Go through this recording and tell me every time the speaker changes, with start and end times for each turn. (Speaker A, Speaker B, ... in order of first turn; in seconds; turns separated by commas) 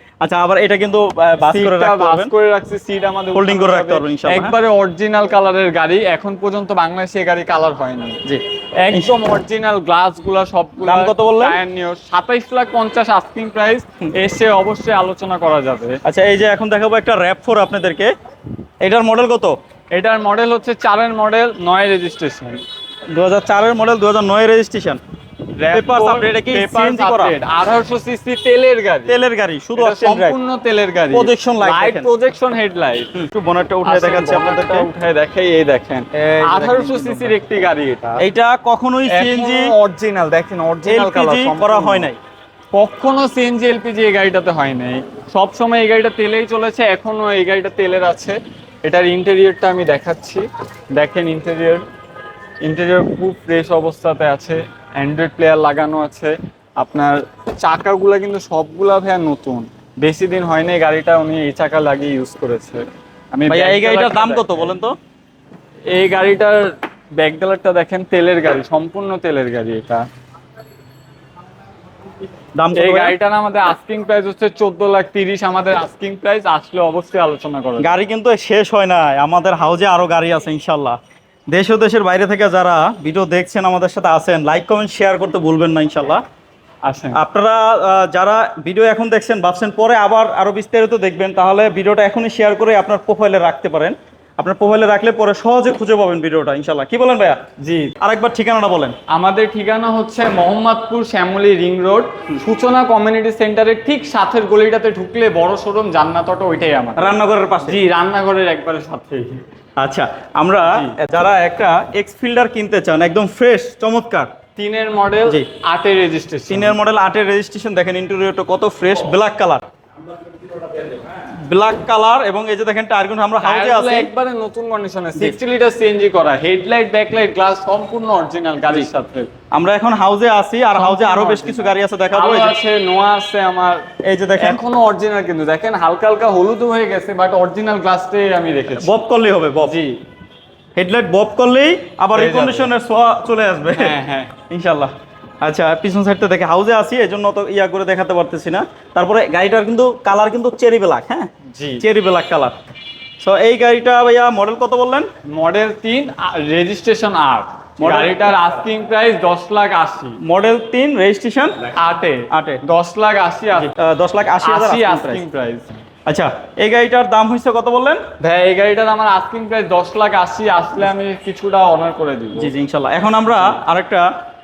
Speaker A: 0.2-2.3, Speaker B: 1.4-8.2, Speaker A: 3.3-4.6, Speaker A: 8.2-9.2, Speaker B: 8.8-16.0, Speaker A: 10.8-11.6, Speaker A: 16.0-18.1, Speaker A: 18.8-19.6, Speaker B: 19.9-22.6, Speaker A: 23.1-25.0, Speaker B: 25.6-29.2, Speaker A: 25.7-27.3, Speaker A: 29.1-30.4, Speaker B: 29.8-33.1, Speaker A: 31.1-32.1, Speaker A: 33.1-34.9, Speaker B: 33.8-38.2, Speaker A: 36.1-37.3, Speaker A: 38.2-39.7, Speaker B: 39.1-42.1, Speaker A: 40.9-42.2, Speaker B: 42.7-51.8, Speaker B: 52.6-64.7, Speaker A: 63.5-65.0, Speaker B: 65.9-70.0, Speaker A: 72.6-73.1, Speaker B: 72.7-77.9, Speaker A: 77.8-81.0, Speaker A: 81.5-86.2, Speaker B: 86.8-87.2, Speaker A: 87.1-97.4, Speaker B: 97.6-97.9, Speaker A: 98.0-98.9, Speaker B: 99.1-109.4, Speaker A: 107.0-107.8, Speaker A: 109.8-114.3, Speaker B: 110.7-110.9, Speaker B: 114.5-116.8, Speaker A: 116.5-119.6, Speaker A: 121.0-124.1, Speaker B: 123.4-129.3, Speaker A: 129.5-132.6, Speaker B: 130.7-138.9, Speaker A: 134.0-134.6, Speaker A: 138.7-139.8, Speaker B: 139.6-139.9, Speaker A: 140.8-144.0, Speaker B: 142.1-142.7, Speaker B: 143.7-144.3, Speaker A: 144.5-151.3, Speaker B: 151.5-151.8, Speaker A: 151.8-152.5, Speaker A: 153.2-155.1, Speaker B: 155.3-160.2, Speaker A: 157.8-158.3, Speaker A: 160.2-161.6, Speaker B: 161.7-163.7, Speaker A: 162.3-162.6, Speaker A: 163.5-165.2, Speaker B: 164.4-165.8, Speaker A: 166.1-168.0, Speaker B: 168.2-172.5, Speaker A: 172.4-174.1